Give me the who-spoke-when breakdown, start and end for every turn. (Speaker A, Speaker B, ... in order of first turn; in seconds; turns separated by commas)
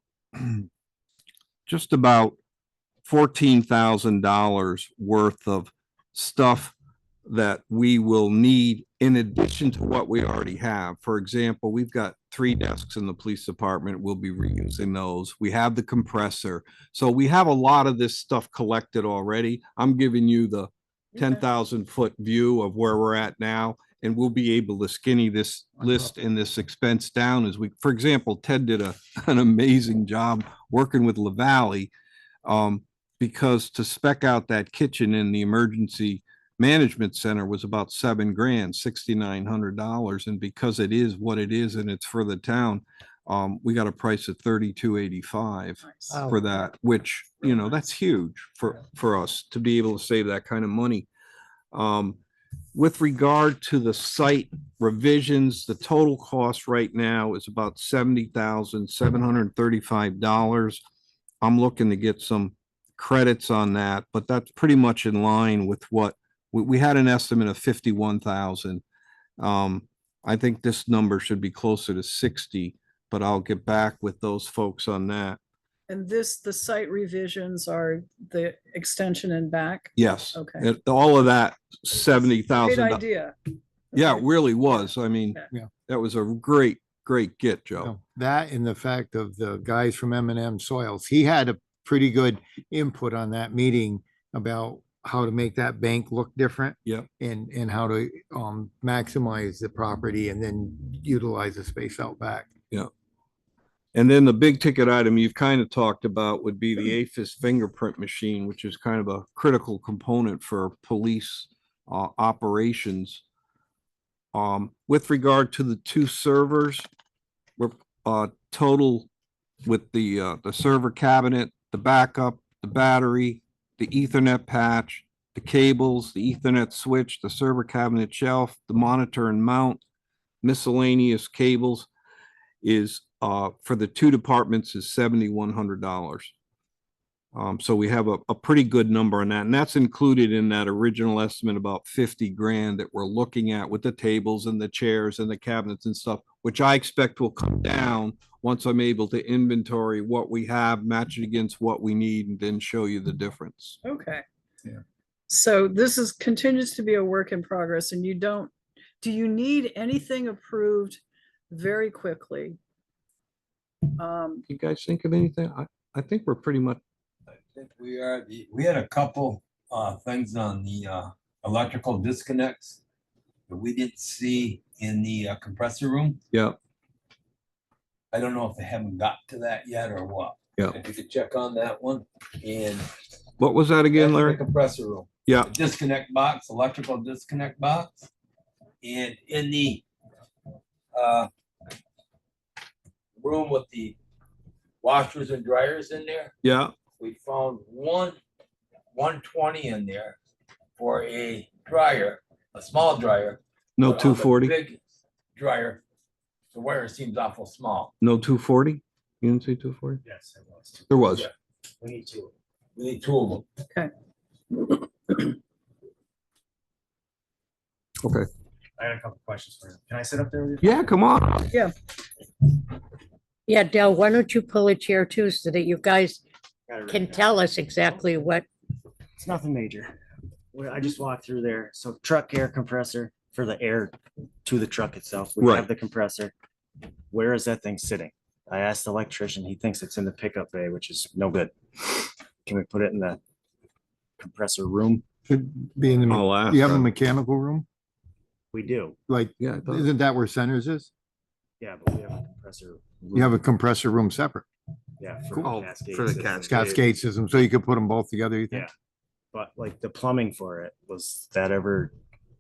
Speaker A: 0.3-0.7, Speaker A: 1.7-2.4, Speaker A: 3.1-6.7, Speaker A: 7.2-31.9, Speaker A: 32.5-51.1, Speaker B: 45.8-46.2, Speaker C: 46.1-46.5, Speaker A: 51.7-52.2, Speaker A: 52.7-60.8, Speaker A: 61.4-68.8, Speaker A: 69.4-75.4, Speaker B: 75.9-80.7, Speaker A: 80.0-83.0, Speaker B: 82.6-83.3, Speaker B: 83.9-85.5, Speaker A: 83.9-88.0, Speaker C: 87.8-102.5, Speaker A: 103.9-113.2, Speaker A: 114.3-116.9, Speaker A: 117.6-119.1, Speaker A: 119.6-129.8, Speaker A: 130.4-131.9, Speaker A: 132.6-136.3, Speaker A: 137.3-153.8, Speaker B: 153.8-154.2, Speaker B: 155.3-162.6, Speaker B: 163.9-164.5, Speaker A: 164.5-166.8, Speaker D: 167.6-172.8, Speaker D: 173.5-176.2, Speaker D: 178.1-182.9, Speaker A: 183.4-184.4, Speaker D: 183.9-188.1, Speaker A: 185.3-185.5, Speaker D: 188.8-189.8, Speaker D: 190.9-191.3, Speaker D: 193.2-194.0, Speaker D: 194.8-196.3, Speaker A: 196.4-196.7, Speaker D: 197.0-198.2, Speaker D: 198.9-200.2, Speaker D: 200.8-204.8, Speaker A: 203.8-204.6, Speaker D: 205.4-205.8, Speaker D: 206.5-207.9, Speaker A: 208.0-210.0, Speaker E: 210.0-211.0, Speaker A: 210.9-211.3, Speaker E: 211.8-212.3, Speaker D: 212.8-213.4, Speaker E: 218.8-220.9, Speaker A: 220.6-221.5, Speaker F: 223.5-226.2, Speaker E: 226.7-227.3, Speaker F: 226.9-228.5, Speaker E: 229.2-230.0, Speaker E: 230.5-236.3, Speaker A: 235.4-235.7, Speaker E: 237.1-243.2, Speaker E: 244.2-245.0, Speaker C: 245.3-247.7, Speaker A: 246.1-246.9, Speaker E: 248.5-249.0, Speaker C: 249.1-250.9, Speaker A: 249.4-249.9, Speaker E: 251.6-253.2, Speaker C: 253.1-254.4, Speaker E: 255.0-256.8, Speaker A: 255.4-256.8, Speaker C: 256.5-258.7, Speaker E: 259.3-261.9